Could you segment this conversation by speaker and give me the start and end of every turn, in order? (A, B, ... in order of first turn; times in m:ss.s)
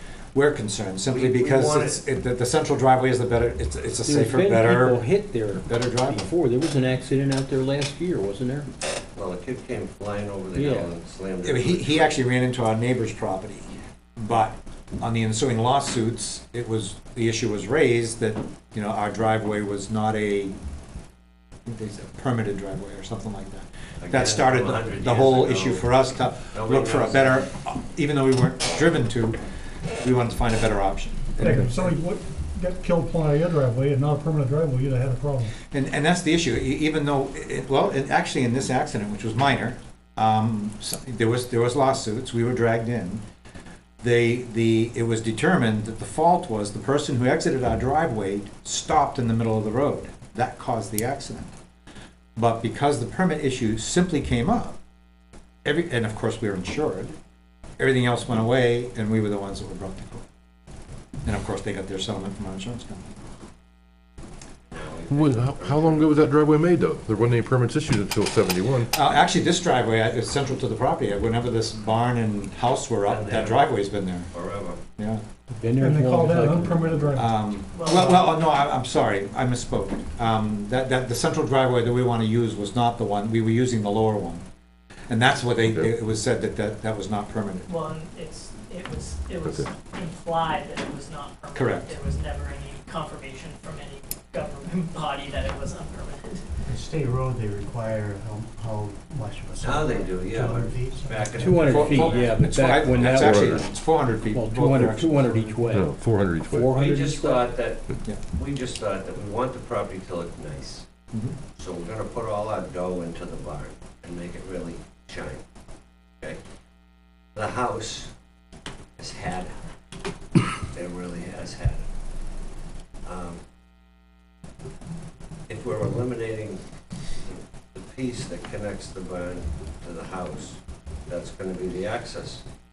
0:00.3-0:06.3 A
0:01.1-0:02.0 B
0:04.1-0:08.7 C
0:09.2-0:12.2 B
0:10.6-0:10.9 C
0:11.4-0:20.6 A
0:21.7-0:29.4 A
0:24.0-0:27.4 B
0:30.0-0:31.6 A
0:31.4-0:35.6 D
0:35.7-0:43.2 A
0:44.0-0:51.5 A
0:52.4-0:54.8 A
0:55.6-0:57.2 A
0:57.8-1:00.2 A
1:01.2-1:03.1 A
1:04.7-1:06.3 B
1:05.1-1:08.9 E
1:08.9-1:14.3 A
1:13.1-1:13.8 B
1:14.3-1:14.8 B
1:15.5-1:17.0 C
1:15.8-1:17.4 D
1:17.2-1:24.4 A
1:17.7-1:18.3 F
1:25.1-1:27.7 A
1:27.7-1:36.5 F
1:29.4-1:29.7 E
1:31.5-1:32.0 A
1:36.7-1:41.7 G
1:39.6-1:43.2 B
1:41.4-1:45.9 C
1:41.6-1:45.6 A
1:43.0-1:43.6 E
1:45.7-1:46.7 E
1:46.5-1:47.5 C
1:46.7-1:50.9 B
1:51.6-1:55.4 B
1:57.4-1:58.1 B
1:59.0-1:59.6 B
2:00.7-2:01.8 B
2:03.0-2:03.4 B
2:05.5-2:06.6 B
2:07.2-2:12.4 B